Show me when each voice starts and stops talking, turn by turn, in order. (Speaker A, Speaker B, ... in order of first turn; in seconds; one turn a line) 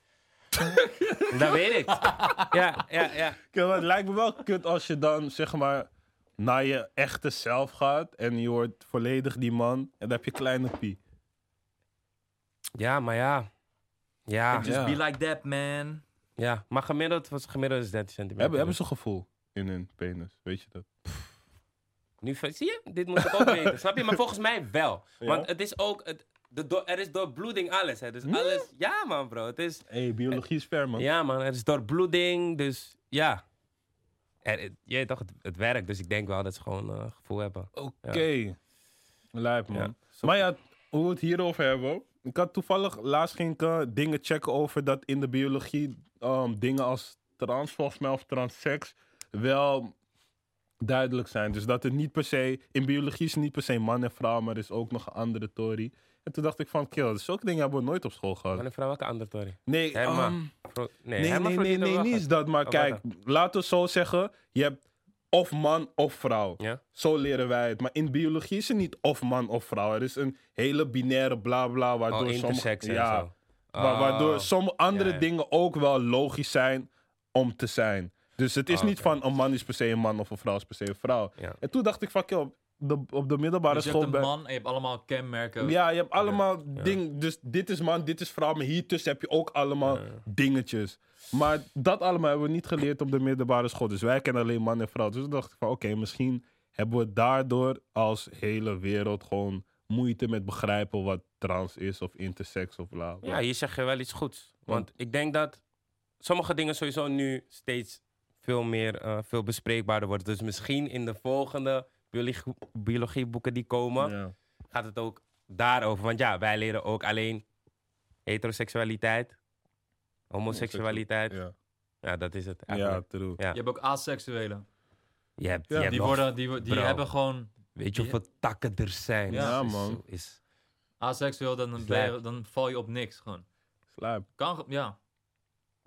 Speaker A: 0.6-2.5
Speaker B: 1.3-3.4
Speaker C: 3.5-11.0
Speaker B: 12.8-13.5
Speaker B: 14.3-14.7
Speaker A: 14.5-16.0
Speaker C: 14.6-15.0
Speaker B: 16.4-18.8
Speaker C: 18.4-21.2
Speaker B: 22.2-30.4
Speaker C: 23.2-23.7
Speaker C: 25.2-25.5
Speaker C: 28.2-28.7
Speaker C: 29.9-31.1
Speaker B: 31.0-33.4
Speaker B: 34.4-38.2
Speaker C: 37.7-38.5
Speaker C: 39.3-49.9
Speaker B: 39.7-40.4
Speaker C: 50.8-58.6
Speaker B: 58.5-63.0
Speaker C: 59.7-60.5
Speaker C: 61.2-64.8
Speaker C: 65.3-84.3
Speaker B: 72.1-75.3
Speaker B: 78.7-79.2
Speaker A: 83.7-85.8
Speaker C: 85.6-103.4
Speaker B: 86.3-87.0
Speaker B: 89.8-90.1
Speaker B: 103.2-105.6
Speaker B: 106.2-114.1
Speaker C: 114.0-114.3
Speaker B: 114.7-117.4
Speaker B: 118.2-119.3
Speaker B: 120.3-121.4
Speaker C: 120.5-121.5
Speaker B: 122.0-123.6
Speaker C: 122.7-123.4
Speaker A: 123.5-124.6
Speaker B: 125.4-127.0
Speaker C: 125.7-125.9
Speaker A: 125.8-128.2
Speaker B: 127.7-130.4
Speaker A: 129.3-129.6
Speaker C: 129.3-130.0
Speaker A: 131.0-133.4
Speaker B: 131.8-132.2
Speaker C: 133.9-134.2
Speaker A: 134.4-135.0